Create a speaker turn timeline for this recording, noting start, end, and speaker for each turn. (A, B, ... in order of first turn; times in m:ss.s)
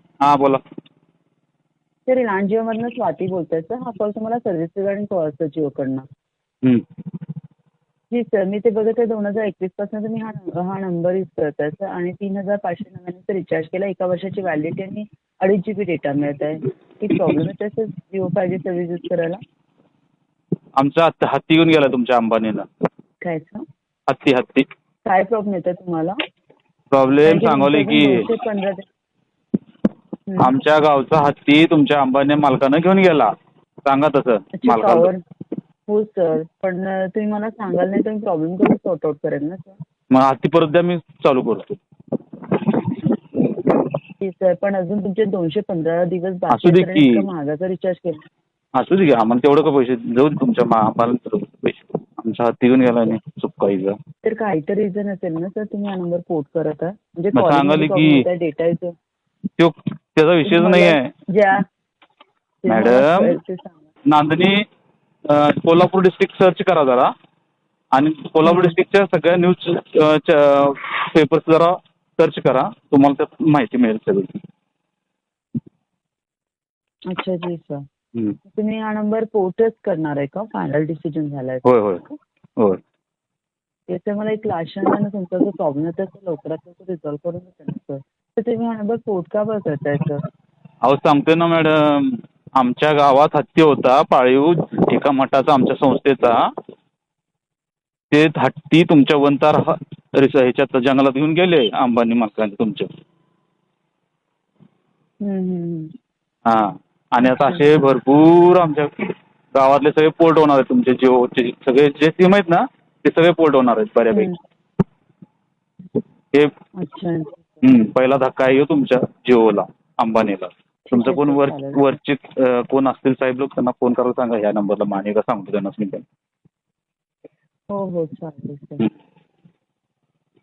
0:00.2-0:00.6 A
0:02.1-0:06.0 B
0:08.1-0:19.4 B
0:20.8-0:22.6 A
0:23.2-0:23.6 B
0:24.1-0:24.6 A
0:25.0-0:26.2 B
0:26.9-0:28.2 A
0:27.2-0:28.8 B
0:30.4-0:33.3 A
0:33.8-0:35.1 A
0:34.5-0:35.2 B
0:35.9-0:39.8 B
0:40.1-0:41.8 A
0:44.2-0:48.2 B
0:46.5-0:47.2 A
0:48.7-0:54.0 A
0:54.2-0:58.9 B
0:57.3-0:58.2 A
0:59.6-1:01.1 A
1:00.4-1:01.6 B
1:02.6-1:03.9 B
1:02.7-1:03.4 A
1:04.0-1:04.6 A
1:05.3-1:07.1 A
1:07.9-1:14.4 A
1:08.4-1:08.8 B
1:17.1-1:17.8 B
1:18.4-1:22.1 B
1:21.6-1:22.0 A
1:23.9-1:30.2 B
1:30.8-1:36.4 A
1:38.1-1:42.9 A
1:45.2-1:45.9 B
1:46.4-1:54.3 A
1:54.1-1:54.4 B
1:56.8-1:57.6 B
1:57.6-2:06.0 A
2:00.9-2:01.8 B
2:07.7-2:08.9 B